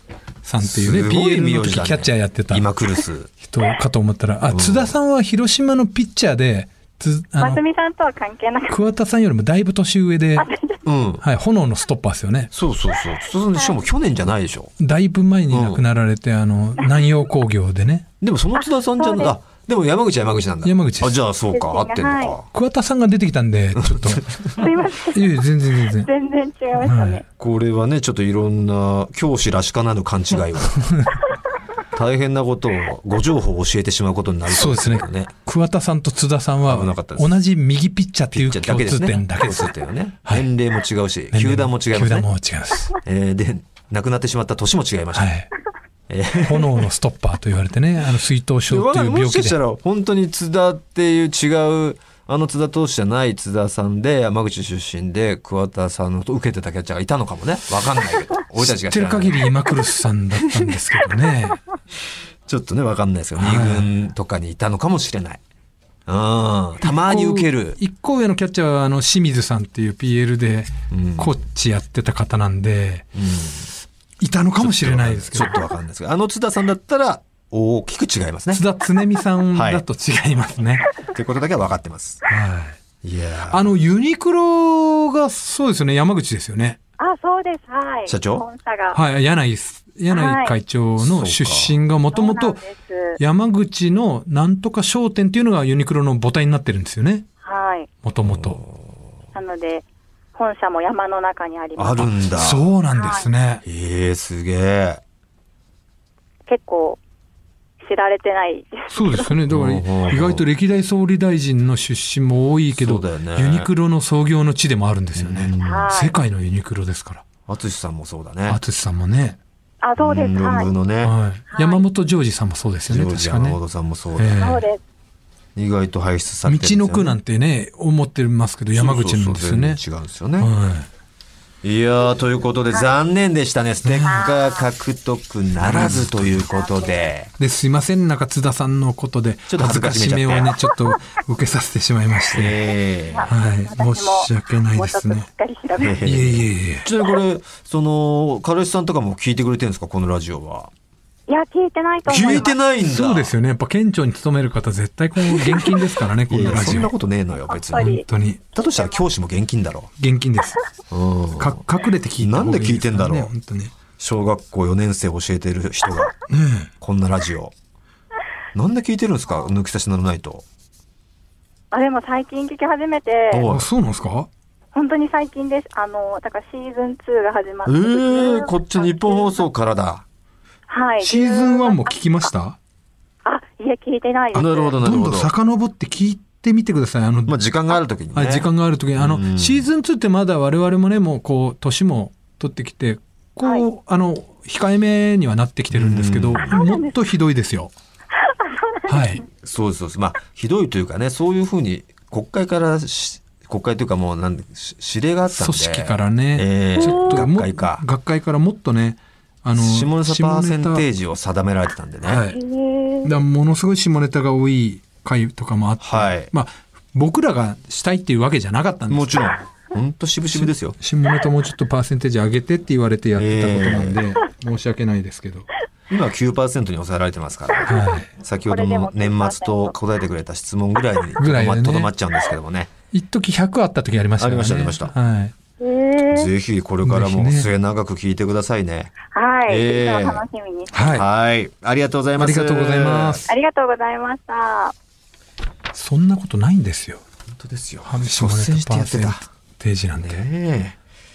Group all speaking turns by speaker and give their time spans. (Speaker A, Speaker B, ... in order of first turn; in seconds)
Speaker A: 0.4-2.7, 3.3-7.6, 8.7-10.5, 11.2-12.5, 14.8-18.1, 20.6-21.1, 22.5-24.3, 25.0-26.1, 26.8-27.2, 30.8-31.2, 34.5-40.5, 41.3-43.0, 45.1-45.5, 46.4-49.6, 58.5-61.6, 63.4-63.9, 66.8-73.0, 74.2-75.6, 78.5-80.9, 82.3-82.8, 83.5-86.8, 88.9-92.6, 93.2-97.2, 98.0-98.6, 102.2-103.6, 108.9-117.2, 118.5-119.4, 121.0-123.6, 124.2-124.7, 126.4-129.8, 130.4-130.9, 133.8-134.3, 135.6-136.5, 137.4-142.7, 143.3-145.3, 146.0-146.8, 152.2-156.9, 157.7-158.4, 160.0-160.6, 161.4-163.7, 166.3-166.7, 173.4-174.3, 181.0-182.6, 184.8-187.3, 188.1-197.7, 198.9-199.2, 205.3-210.8, 212.0-212.4, 213.0-219.3, 220.3-225.5, 227.7-228.1, 231.2-231.9, 232.9-235.3, 236.8-237.5, 240.7-241.0, 242.2-243.3, 245.7-247.0, 247.8-250.2
Speaker B: 0.6-3.3, 4.5-4.9, 10.8-11.2, 12.5-14.7, 15.5-15.8, 18.2-22.4, 23.8-24.6, 27.4-30.9, 31.9-35.3, 36.6-37.3, 38.3-42.3, 43.0-45.3, 46.1-46.8, 48.7-59.5, 62.5-65.4, 66.1-67.8, 70.9-71.3, 73.1-73.7, 74.6-78.6, 79.5-79.8, 81.0-82.2, 83.0-83.7, 88.1-88.4, 91.0-91.8, 98.2-98.9, 101.8-102.6, 103.6-105.0, 109.5-110.4, 112.7-113.7, 115.1-115.9, 117.5-118.6, 120.0-121.2, 122.9-124.4, 125.5-127.2, 128.7-130.5, 131.6-137.3, 139.5-140.6, 142.3-143.3, 145.8-150.7, 152.1-153.3, 156.3-159.9, 160.9-161.6, 162.2-163.3, 164.0-166.1, 166.8-167.5, 168.5-170.4, 173.3-173.7, 177.6-180.0, 184.3-185.3, 187.3-189.7, 195.7-196.6, 199.4-207.8, 209.5-212.2, 215.8-216.3, 218.9-220.8, 223.2-224.0, 225.9-232.7, 234.2-234.9, 236.1-238.9, 239.5-240.2, 240.9-243.3, 247.3-249.2, 249.9-250.8
Speaker C: 7.4-8.8, 10.4-10.8, 18.6-19.3, 21.5-22.4, 24.6-27.2, 87.0-89.0, 90.1-90.6, 92.1-93.2, 97.4-97.9, 99.3-102.1, 102.9-103.3, 106.5-107.0, 107.8-109.3, 115.6-116.2, 119.8-120.7, 121.5-121.8, 124.4-124.8, 134.1-134.6, 136.6-136.9, 143.1-146.0, 151.3-152.5, 155.3-155.8, 157.5-158.0, 158.8-159.0, 171.7-173.4, 174.7-179.4, 180.7-181.9, 183.2-184.7, 196.5-196.9, 198.2-198.9, 206.8-207.2, 212.3-213.1, 228.5-229.7, 235.6-236.3, 239.1-240.7, 243.3-244.7